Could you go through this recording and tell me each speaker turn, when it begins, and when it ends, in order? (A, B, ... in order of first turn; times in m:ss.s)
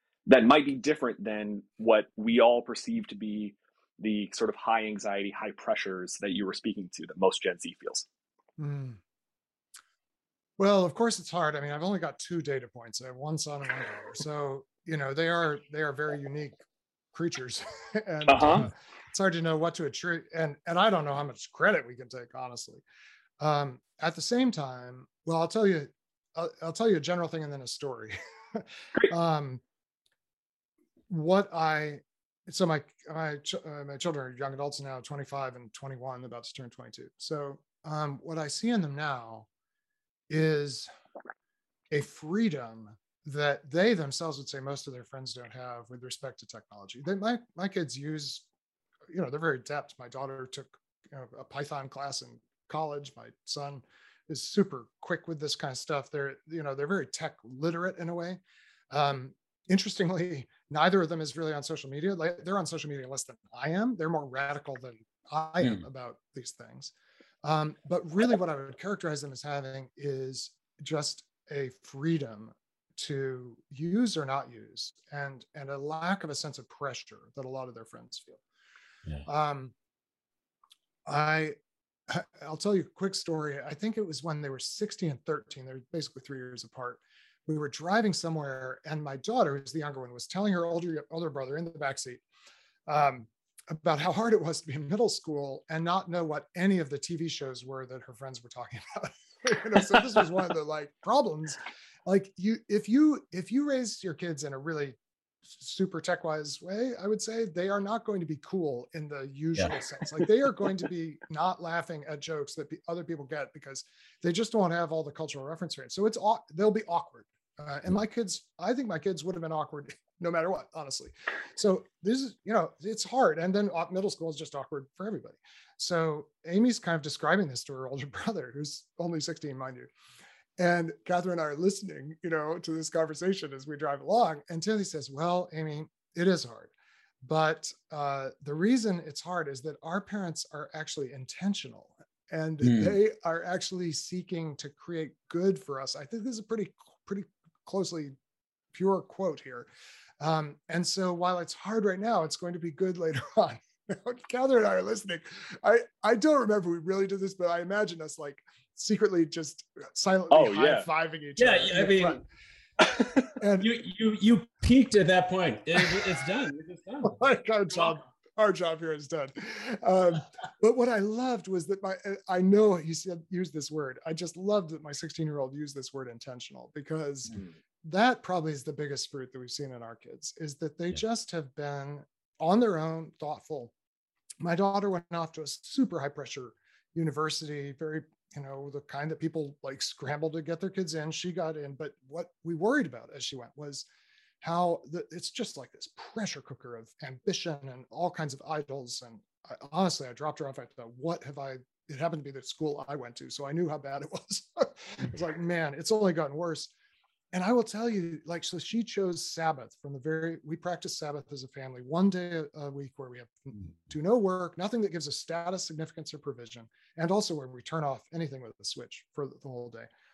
0:00.3-0:08.0 A
0:08.6-0:09.0 B
0:10.6-0:16.6 B
0:17.1-0:22.8 B
0:18.3-0:18.7 A
0:23.4-0:29.6 B
0:31.1-0:39.5 B
0:40.3-0:40.9 B
0:41.9-0:48.5 B
0:49.1-0:58.4 B
0:58.9-1:06.9 B
1:07.4-1:18.4 B
1:19.3-1:19.7 B
1:21.1-1:21.6 B
1:22.1-1:32.2 B
1:32.9-2:09.9 B
2:10.6-2:16.7 B
2:17.2-2:28.2 B
2:22.6-2:23.0 C
2:28.7-2:29.7 B
2:30.2-2:42.2 B
2:40.3-2:40.9 A
2:41.4-2:42.2 C
2:43.4-2:43.7 B
2:43.6-2:47.2 C
2:47.0-3:03.7 B
3:04.4-3:13.9 B
3:14.4-3:26.7 B
3:27.3-3:39.9 B